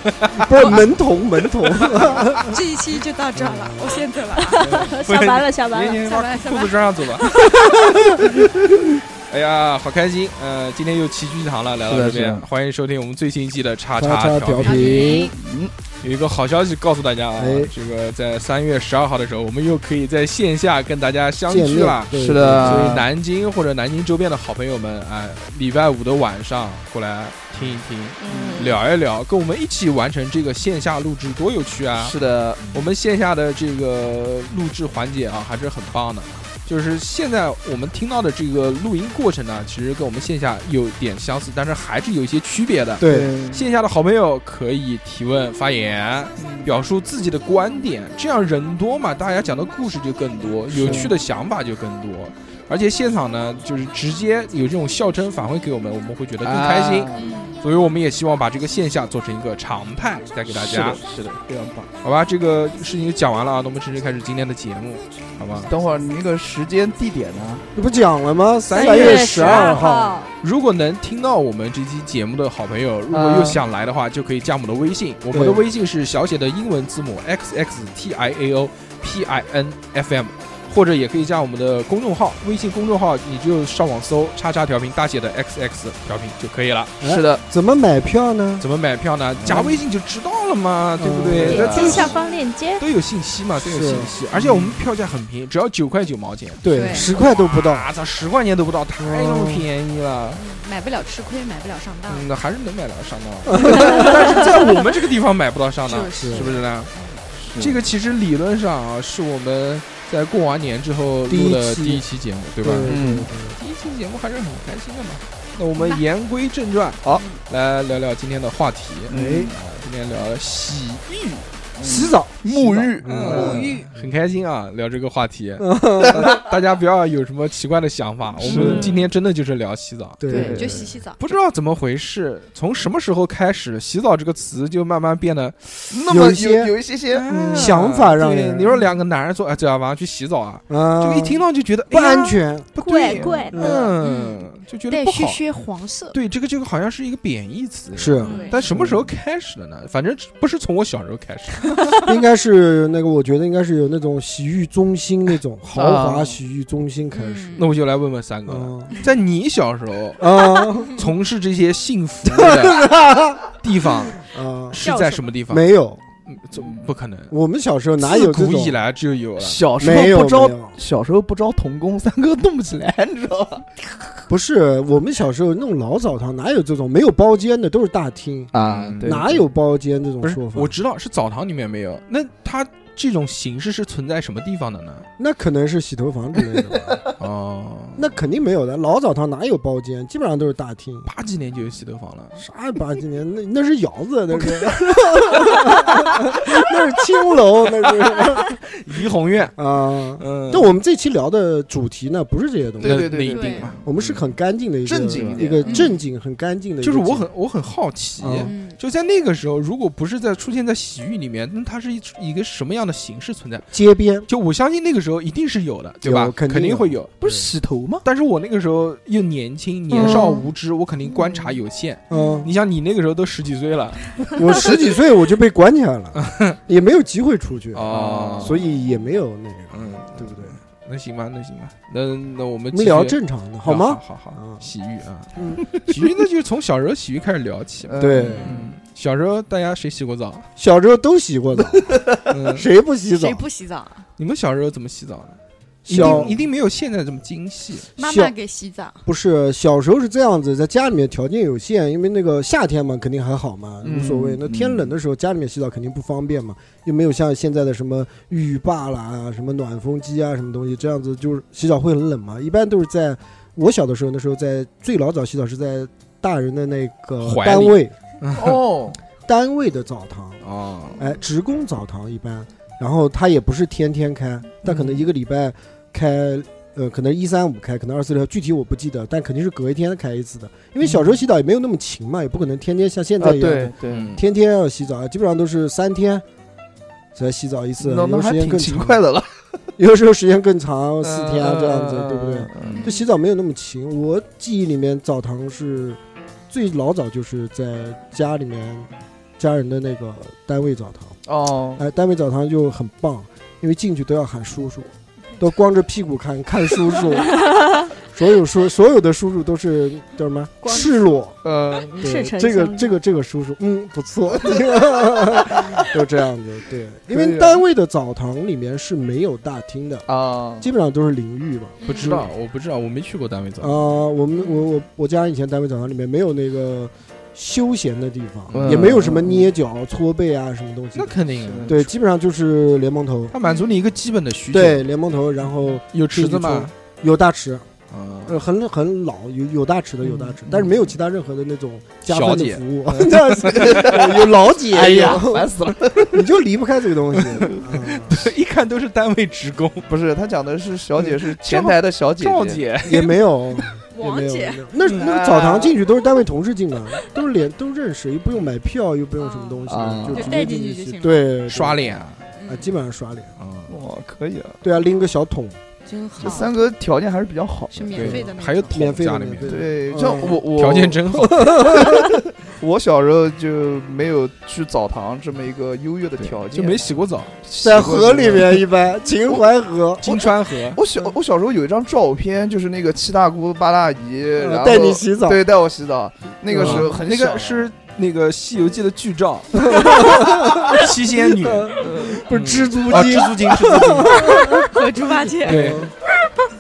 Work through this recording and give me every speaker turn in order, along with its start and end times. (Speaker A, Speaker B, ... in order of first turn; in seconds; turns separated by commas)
Speaker A: 0.2-0.5, Speaker B: 0.3-2.5, Speaker C: 2.4-4.8, Speaker B: 3.4-3.9, Speaker D: 4.4-6.1, Speaker A: 4.6-8.3, Speaker C: 6.0-6.8, Speaker A: 9.3-15.2, Speaker E: 11.9-12.4, Speaker B: 13.9-15.3, Speaker C: 14.6-15.3, Speaker E: 15.1-15.7, Speaker A: 16.0-32.1, Speaker B: 17.4-17.7, Speaker B: 21.4-23.1, Speaker E: 22.2-23.0, Speaker D: 28.2-28.8, Speaker E: 28.3-28.7, Speaker E: 32.0-32.9, Speaker A: 32.7-61.0, Speaker B: 43.0-43.3, Speaker E: 43.0-43.6, Speaker E: 46.4-46.7, Speaker E: 50.7-51.1, Speaker B: 50.7-51.1, Speaker E: 56.4-57.3, Speaker C: 57.1-57.6, Speaker E: 60.5-61.9, Speaker A: 62.0-65.7, Speaker E: 65.7-67.6, Speaker B: 67.7-70.2, Speaker A: 68.7-69.8, Speaker D: 68.7-70.3, Speaker A: 70.4-87.4, Speaker E: 73.1-73.6, Speaker B: 75.3-75.6, Speaker B: 87.0-88.7, Speaker A: 88.6-92.1, Speaker E: 89.4-89.8, Speaker B: 89.5-89.7, Speaker B: 91.0-92.1, Speaker D: 91.5-92.8, Speaker C: 92.0-92.4, Speaker A: 92.8-100.4, Speaker B: 93.6-94.6, Speaker B: 96.6-97.9, Speaker C: 96.7-97.1, Speaker B: 99.0-99.7, Speaker C: 100.3-102.2, Speaker A: 102.1-106.9, Speaker B: 103.5-104.2, Speaker C: 105.8-107.2, Speaker B: 106.2-106.5, Speaker E: 107.3-107.8, Speaker A: 107.6-121.4, Speaker B: 111.3-112.0, Speaker B: 112.6-113.6, Speaker E: 112.8-113.3, Speaker C: 115.8-116.0, Speaker C: 117.1-117.4, Speaker B: 119.1-119.5, Speaker E: 119.1-119.5, Speaker E: 121.8-123.6, Speaker B: 121.8-122.4, Speaker A: 122.5-130.2, Speaker B: 123.0-124.1, Speaker C: 123.3-123.9, Speaker B: 125.6-126.3, Speaker E: 126.1-126.4, Speaker E: 128.4-128.9, Speaker B: 128.4-128.8, Speaker B: 130.2-130.9, Speaker C: 130.3-131.2, Speaker E: 130.3-130.9, Speaker A: 131.2-135.9, Speaker E: 135.9-137.8, Speaker B: 136.1-136.7, Speaker A: 137.1-145.4, Speaker B: 137.5-138.8, Speaker B: 140.7-143.9, Speaker D: 142.8-143.9, Speaker C: 144.0-146.2, Speaker A: 146.1-151.8, Speaker B: 147.9-149.1, Speaker D: 148.2-148.6, Speaker C: 148.2-148.6, Speaker B: 152.0-157.7, Speaker E: 155.7-156.4, Speaker C: 157.1-157.7, Speaker A: 157.6-162.9, Speaker B: 158.4-158.9, Speaker B: 160.2-161.0, Speaker C: 160.8-161.1, Speaker B: 162.2-163.4, Speaker A: 163.6-165.7, Speaker B: 164.2-164.8, Speaker D: 164.8-165.3, Speaker B: 165.5-166.0, Speaker A: 166.3-167.3, Speaker E: 166.6-166.8, Speaker B: 167.3-168.8, Speaker A: 168.0-169.7, Speaker E: 169.4-173.8, Speaker B: 169.8-170.8, Speaker B: 174.3-178.5, Speaker E: 178.5-179.4, Speaker A: 178.6-179.2, Speaker B: 179.0-180.7, Speaker A: 180.2-185.1, Speaker B: 185.2-187.0, Speaker A: 187.2-188.1, Speaker B: 187.9-191.1, Speaker A: 191.1-192.4, Speaker B: 192.4-198.6, Speaker A: 198.8-199.6, Speaker B: 199.6-203.1, Speaker A: 200.2-200.7, Speaker E: 202.8-203.8, Speaker A: 202.8-204.3, Speaker C: 203.3-203.7, Speaker B: 203.8-207.3, Speaker E: 204.8-205.9, Speaker A: 205.1-205.9, Speaker A: 206.8-213.7, Speaker B: 208.2-208.5, Speaker C: 208.4-208.8, Speaker B: 213.7-214.3, Speaker A: 214.3-217.1, Speaker B: 216.0-217.4, Speaker E: 217.2-218.0, Speaker A: 218.0-224.8, Speaker E: 219.9-220.3, Speaker B: 222.1-222.5, Speaker C: 222.1-222.5, Speaker B: 224.3-230.6, Speaker A: 226.2-226.6, Speaker A: 227.7-228.6, Speaker E: 227.9-228.5, Speaker A: 229.7-240.5, Speaker B: 232.7-234.6, Speaker B: 235.3-235.6, Speaker E: 237.9-238.7, Speaker B: 237.9-238.6, Speaker B: 240.6-243.4, Speaker E: 242.0-242.3, Speaker A: 242.3-242.7, Speaker C: 243.1-244.1, Speaker A: 244.2-247.9, Speaker B: 245.8-246.3, Speaker E: 246.0-246.3, Speaker C: 247.9-249.0, Speaker B: 248.0-248.3, Speaker B: 249.1-267.9, Speaker E: 253.8-254.9, Speaker A: 267.2-268.6, Speaker E: 268.3-269.0, Speaker B: 269.2-270.4, Speaker A: 270.4-271.0, Speaker B: 270.9-286.2, Speaker E: 274.6-275.0, Speaker E: 280.8-281.2, Speaker E: 283.2-284.1, Speaker A: 283.9-284.2, Speaker B: 287.1-289.0, Speaker E: 287.8-289.3, Speaker B: 289.8-301.2, Speaker E: 291.0-292.9, Speaker C: 292.8-293.1, Speaker E: 301.3-301.8, Speaker B: 301.8-307.4, Speaker B: 308.1-311.3, Speaker D: 310.6-311.1, Speaker E: 311.4-312.0, Speaker D: 311.9-312.9, Speaker B: 312.0-320.1, Speaker E: 317.1-317.6, Speaker E: 320.1-320.7, Speaker B: 320.6-322.3, Speaker C: 321.8-322.1, Speaker A: 321.9-323.9, Speaker B: 323.6-333.3, Speaker A: 328.5-329.0, Speaker E: 328.6-329.5, Speaker A: 330.9-331.9, Speaker E: 331.4-331.8, Speaker A: 333.3-334.9, Speaker C: 333.4-333.8, Speaker B: 334.5-337.6, Speaker A: 335.9-336.7, Speaker A: 337.9-338.4, Speaker B: 338.2-348.3, Speaker E: 340.1-340.7, Speaker A: 342.1-344.0, Speaker E: 342.9-346.2, Speaker A: 347.5-349.9, Speaker E: 349.9-352.6, Speaker A: 351.0-353.6, Speaker B: 352.8-363.3, Speaker C: 353.9-354.7, Speaker A: 354.8-355.1, Speaker E: 354.9-355.8, Speaker C: 359.2-361.3, Speaker E: 359.7-360.5, Speaker A: 361.5-362.2, Speaker C: 362.4-362.8, Speaker A: 363.4-363.8, Speaker E: 363.7-364.6, Speaker B: 364.6-365.6, Speaker C: 365.9-366.5, Speaker E: 366.2-368.1, Speaker C: 367.7-368.8, Speaker A: 367.9-369.7, Speaker B: 368.7-370.4, Speaker E: 369.4-371.1, Speaker A: 370.5-371.9, Speaker B: 371.1-372.2, Speaker E: 372.6-376.8, Speaker A: 376.2-377.4, Speaker E: 377.4-378.6, Speaker B: 377.6-380.2, Speaker A: 380.0-380.8, Speaker E: 380.7-387.6, Speaker B: 384.3-385.4, Speaker B: 386.4-386.9, Speaker A: 386.5-394.6, Speaker B: 389.6-394.8, Speaker E: 391.8-392.2, Speaker C: 394.5-395.7, Speaker B: 395.4-395.9, Speaker A: 395.4-395.9